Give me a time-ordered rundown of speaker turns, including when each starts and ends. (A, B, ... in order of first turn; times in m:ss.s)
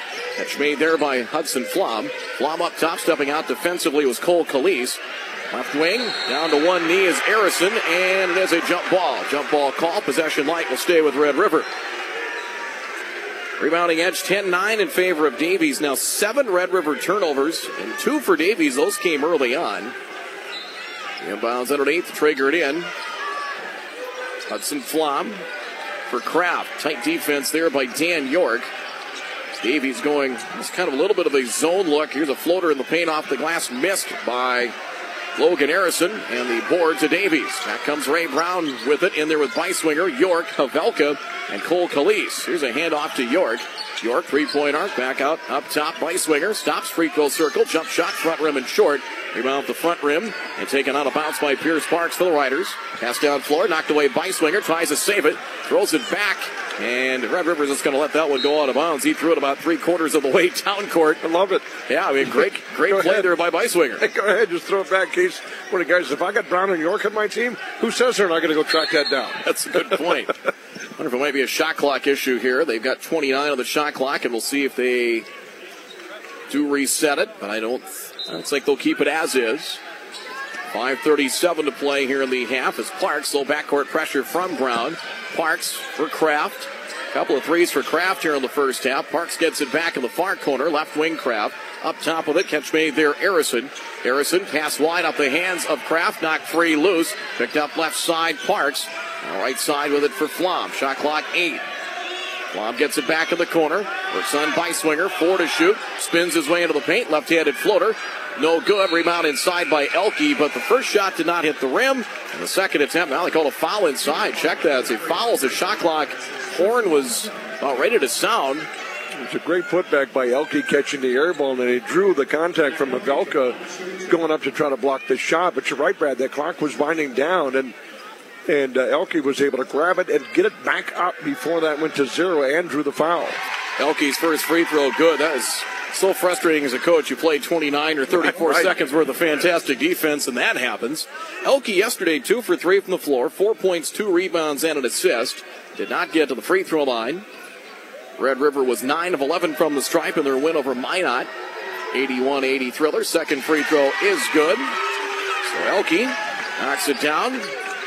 0:00.4-0:11.7 A
0:13.6-0:19.9 A
0:21.2-0:22.9 A
0:24.5-0:25.4 A
0:26.1-0:28.7 A
0:29.5-0:34.7 A
0:35.4-1:01.2 A
1:01.2-1:01.7 B
1:01.9-1:04.0 A
1:02.8-1:03.3 B
1:04.0-1:09.9 B
1:09.4-1:10.4 A
1:11.0-1:15.3 A
1:16.5-1:19.8 A
1:20.7-1:41.6 A
1:42.5-1:58.7 A
1:59.2-2:07.7 B
2:08.4-2:13.4 B
2:13.8-2:27.2 A
2:18.1-2:18.7 B
2:28.2-2:31.3 A
2:31.9-2:34.7 A
2:35.4-2:37.5 A